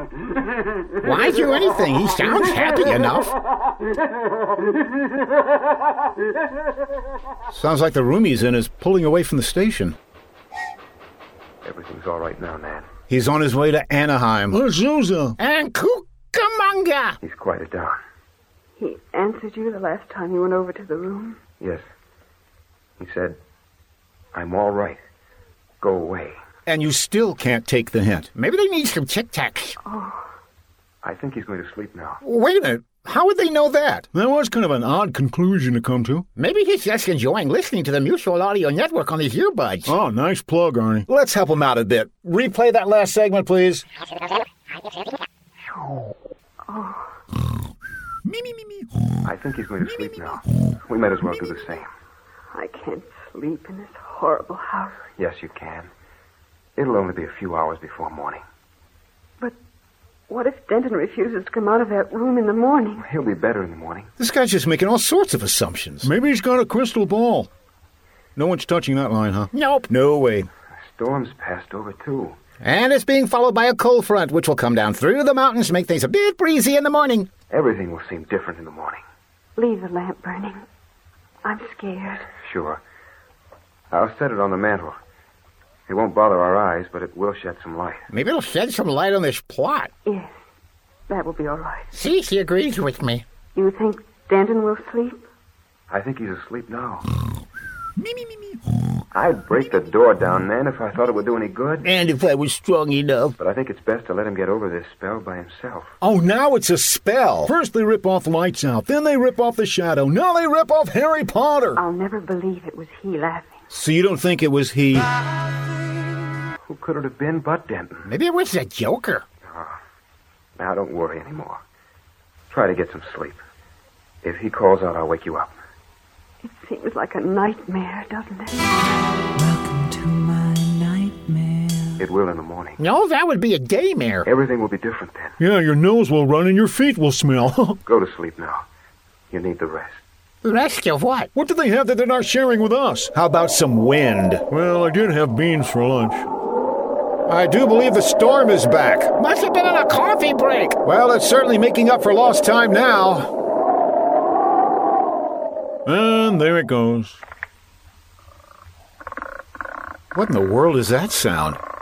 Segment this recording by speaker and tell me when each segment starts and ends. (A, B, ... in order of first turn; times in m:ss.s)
0:01.0-0:03.4 A
0:07.5-0:10.0 B
0:11.6-0:12.9 C
0:13.1-0:14.6 B
0:14.5-0:15.4 D
0:15.4-0:17.2 A
0:17.2-0:18.0 C
0:18.8-0:21.4 E
0:23.0-0:23.4 C
0:24.3-0:25.0 C
0:25.8-0:26.4 C
0:26.7-0:28.3 B
0:28.4-0:29.8 A
0:29.8-0:30.2 E
0:31.0-0:32.2 C
0:32.2-0:34.0 A
0:34.1-0:36.3 D
0:36.4-0:39.9 A
0:39.9-0:41.1 D
0:41.1-0:43.8 B
0:46.7-0:47.1 E
0:49.2-0:51.9 C
0:52.5-0:55.0 E
0:55.2-0:55.9 C
0:56.8-0:58.4 C
1:00.3-1:03.0 E
1:03.0-1:04.1 C
1:04.2-1:06.1 B
1:06.0-1:07.5 D
1:08.4-1:10.5 B
1:09.5-1:09.9 A
1:10.8-1:12.4 C
1:12.6-1:17.3 A
1:17.5-1:19.0 C
1:19.6-1:20.6 E
1:21.4-1:22.3 E
1:22.4-1:22.8 C
1:23.9-1:25.0 C
1:25.9-1:28.1 C
1:28.1-1:29.9 A
1:30.0-1:30.4 E
1:31.1-1:31.9 E
1:31.9-1:33.2 A
1:33.6-1:35.2 E
1:35.9-1:37.1 C
1:39.1-1:41.9 C
1:41.8-1:43.4 A
1:43.4-1:45.9 C
1:46.0-1:47.5 B
1:47.4-1:51.8 D
1:51.8-1:53.6 E
1:53.7-1:55.1 B
1:56.7-1:58.1 C
1:58.1-1:59.2 A
1:59.4-1:59.8 C
2:00.6-2:01.6 C
2:02.5-2:03.4 C
2:04.2-2:05.6 C
2:06.4-2:08.6 E
2:12.0-2:12.8 C
2:12.8-2:14.3 A
2:14.2-2:15.4 C
2:15.4-2:17.8 D
2:17.8-2:18.6 C
2:19.3-2:20.0 C
2:20.4-2:21.3 A
2:21.3-2:23.1 D
2:23.1-2:24.5 B
2:24.5-2:26.3 D
2:27.3-2:29.2 B
2:29.2-2:30.8 A
2:30.8-2:33.3 B
2:35.9-2:37.2 D
2:40.1-2:41.6 B